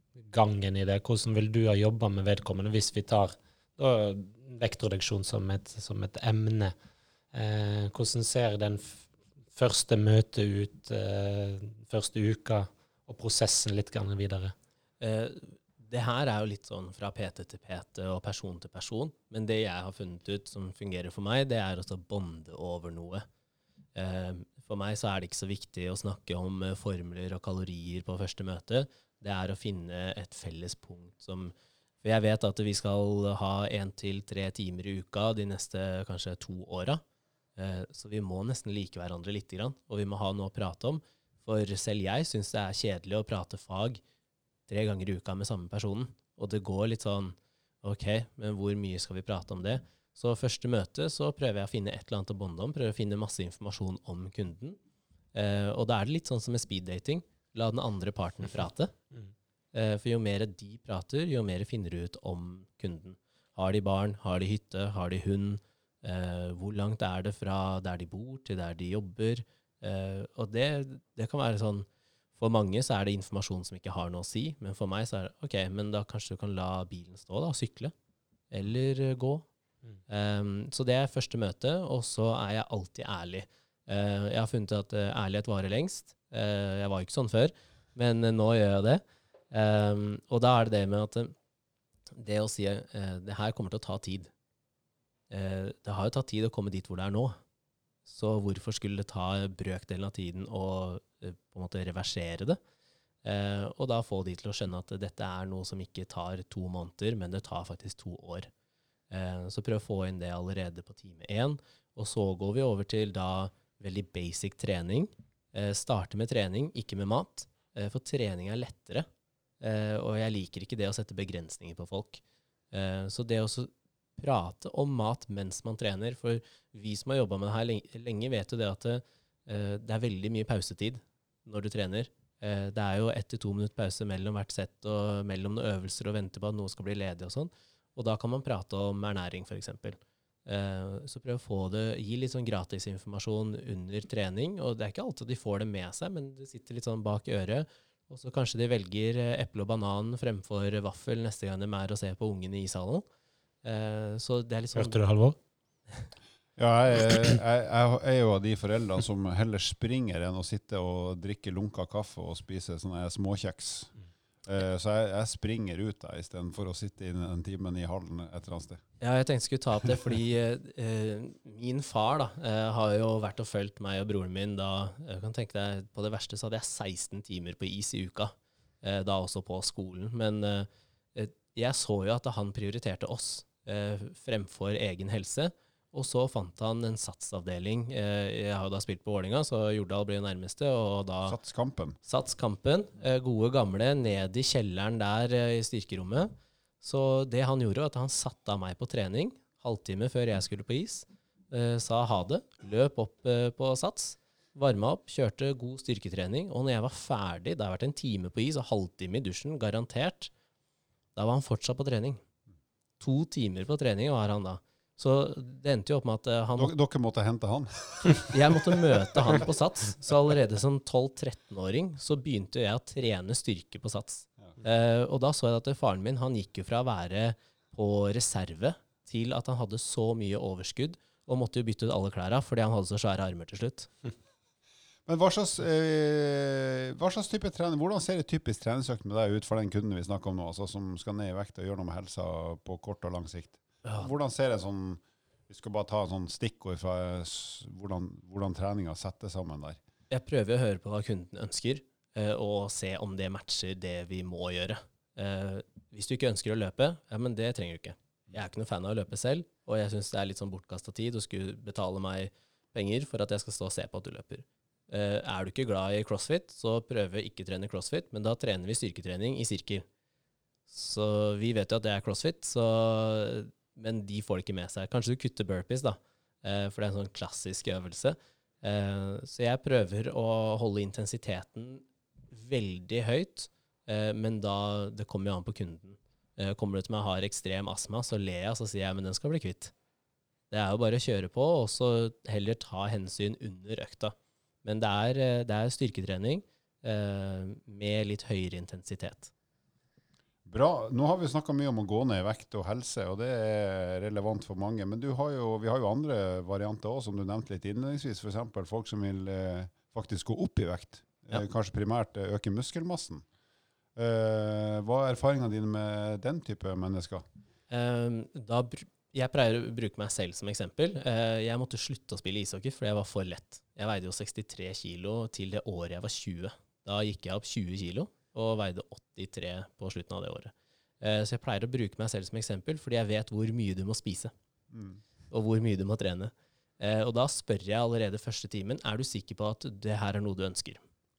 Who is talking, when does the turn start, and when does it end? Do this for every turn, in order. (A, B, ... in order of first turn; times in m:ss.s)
0:00.3-0:06.7 A
0:07.3-0:09.0 A
0:09.5-0:14.5 A
0:15.0-0:23.2 B
0:23.9-0:37.0 B
0:37.6-0:44.0 B
0:44.7-0:54.8 B
0:55.3-0:58.9 B
0:59.7-1:17.9 B
1:18.5-1:19.5 B
1:20.1-1:31.3 B
1:32.2-1:34.3 B
1:35.3-1:37.4 B
1:38.0-1:42.6 B
1:43.2-1:48.5 B
1:49.1-1:59.1 B
1:59.6-2:33.0 B
2:33.6-2:35.0 B
2:34.7-2:35.4 A
2:36.6-2:43.9 C
2:44.4-2:48.8 C
2:49.0-3:11.4 B
3:11.2-3:12.0 C
3:12.0-3:16.3 B
3:16.8-3:30.3 B
3:31.2-3:32.2 B
3:33.0-3:36.7 B
3:36.6-3:39.4 C
3:38.3-3:53.9 B
3:55.0-4:09.8 C
4:10.1-4:29.8 B
4:30.7-4:49.7 B
4:50.5-4:59.3 B
5:00.4-5:13.2 C
5:14.0-5:17.2 C
5:17.7-5:34.3 B
5:34.7-5:35.0 C
5:35.3-5:40.8 B